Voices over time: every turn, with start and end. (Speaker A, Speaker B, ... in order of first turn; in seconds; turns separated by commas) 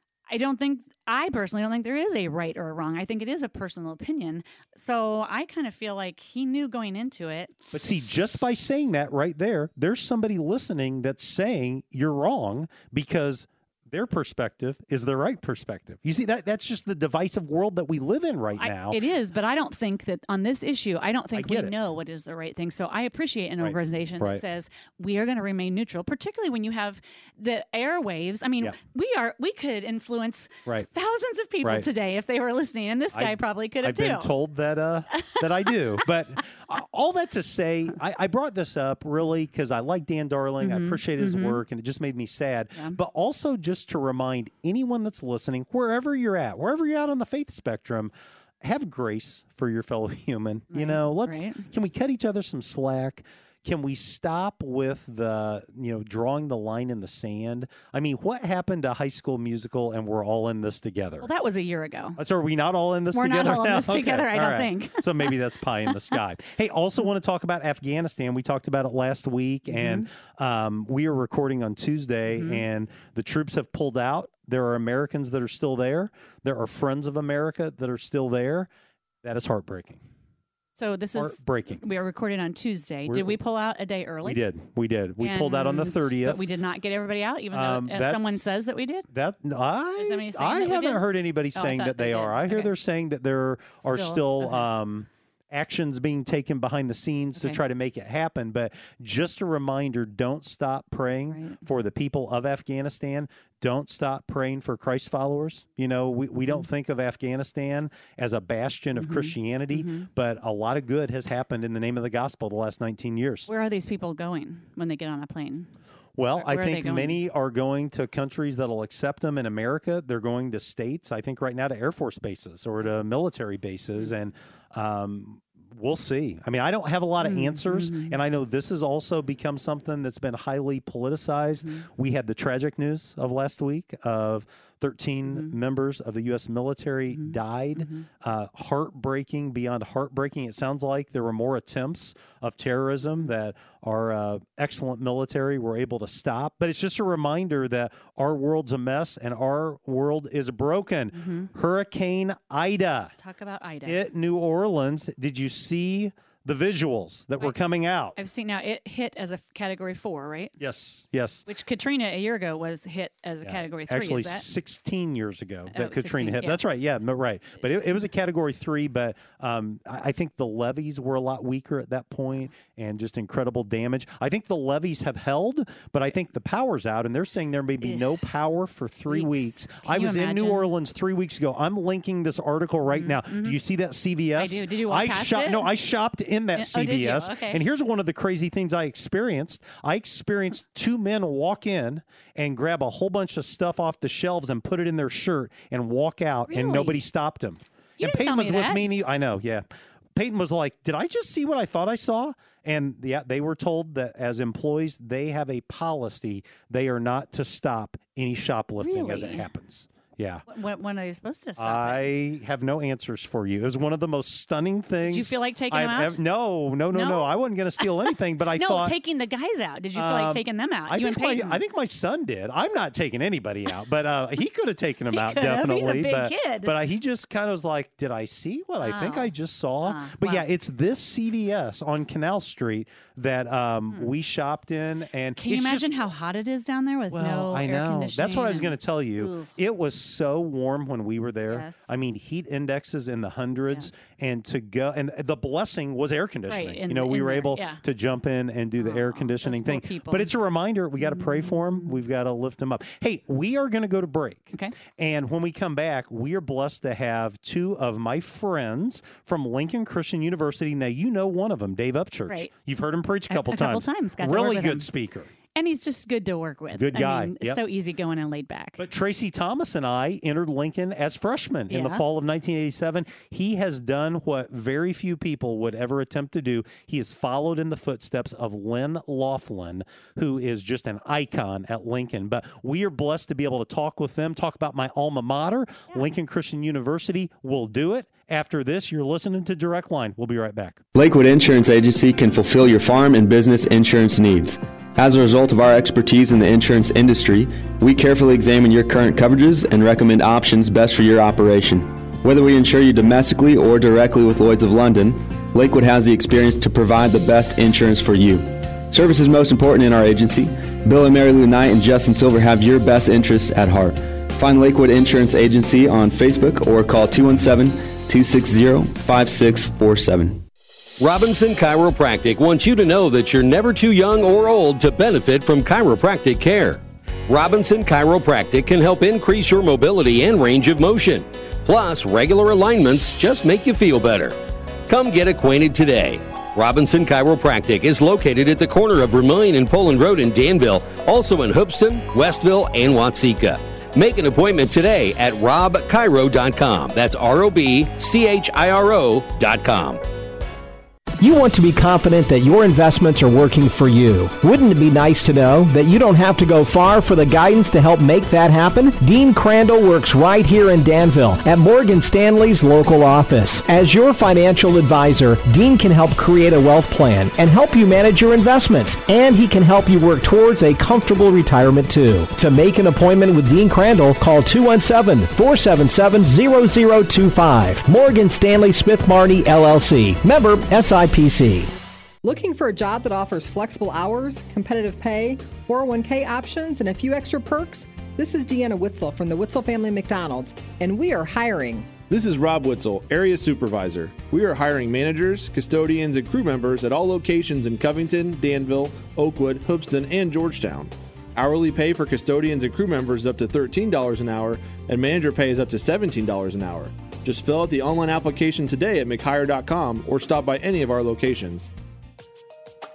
Speaker A: 0.3-7.6, Speaker B: 7.7-19.0, Speaker A: 18.6-34.3, Speaker B: 21.3-21.8, Speaker B: 23.6-24.4, Speaker B: 33.1-61.3, Speaker A: 40.6-41.6, Speaker A: 50.7-51.6, Speaker A: 61.2-62.2, Speaker B: 62.2-78.7, Speaker A: 63.1-65.3, Speaker A: 69.7-70.1, Speaker A: 72.3-72.6, Speaker B: 79.2-80.0, Speaker A: 80.8-84.4, Speaker B: 81.2-81.8, Speaker B: 83.1-83.4, Speaker B: 84.2-86.4, Speaker A: 85.2-89.1, Speaker B: 87.5-88.4, Speaker B: 89.1-113.5, Speaker A: 90.0-92.7, Speaker A: 93.8-94.7, Speaker A: 101.3-101.6, Speaker A: 109.0-110.1, Speaker A: 113.5-115.7, Speaker B: 116.2-153.1, Speaker A: 116.4-117.2, Speaker A: 127.2-128.2, Speaker A: 135.3-135.6, Speaker A: 137.1-138.1, Speaker A: 151.1-151.5, Speaker A: 153.2-154.0, Speaker B: 153.9-158.2, Speaker A: 158.2-160.6, Speaker B: 160.6-161.5, Speaker A: 161.5-164.5, Speaker B: 163.4-210.4, Speaker A: 165.7-166.6, Speaker A: 179.1-180.7, Speaker A: 182.9-183.6, Speaker A: 184.4-185.7, Speaker A: 186.6-187.6, Speaker A: 196.5-197.0, Speaker A: 198.0-198.8, Speaker A: 208.8-209.5, Speaker A: 210.5-212.1, Speaker B: 211.6-218.9, Speaker A: 215.0-216.2, Speaker A: 216.9-217.3, Speaker A: 218.6-221.6, Speaker B: 219.9-235.9, Speaker A: 225.1-226.8, Speaker A: 228.8-230.4, Speaker A: 235.4-239.5, Speaker B: 237.1-265.3, Speaker A: 241.5-241.8, Speaker A: 246.5-247.8, Speaker A: 248.8-250.3, Speaker A: 251.0-251.9, Speaker A: 263.3-264.9, Speaker A: 265.6-268.8, Speaker B: 266.8-267.6, Speaker B: 268.8-290.8, Speaker A: 271.7-272.0, Speaker C: 290.9-320.4, Speaker D: 321.0-350.0, Speaker E: 351.2-381.7, Speaker F: 382.2-391.9, Speaker G: 392.1-411.7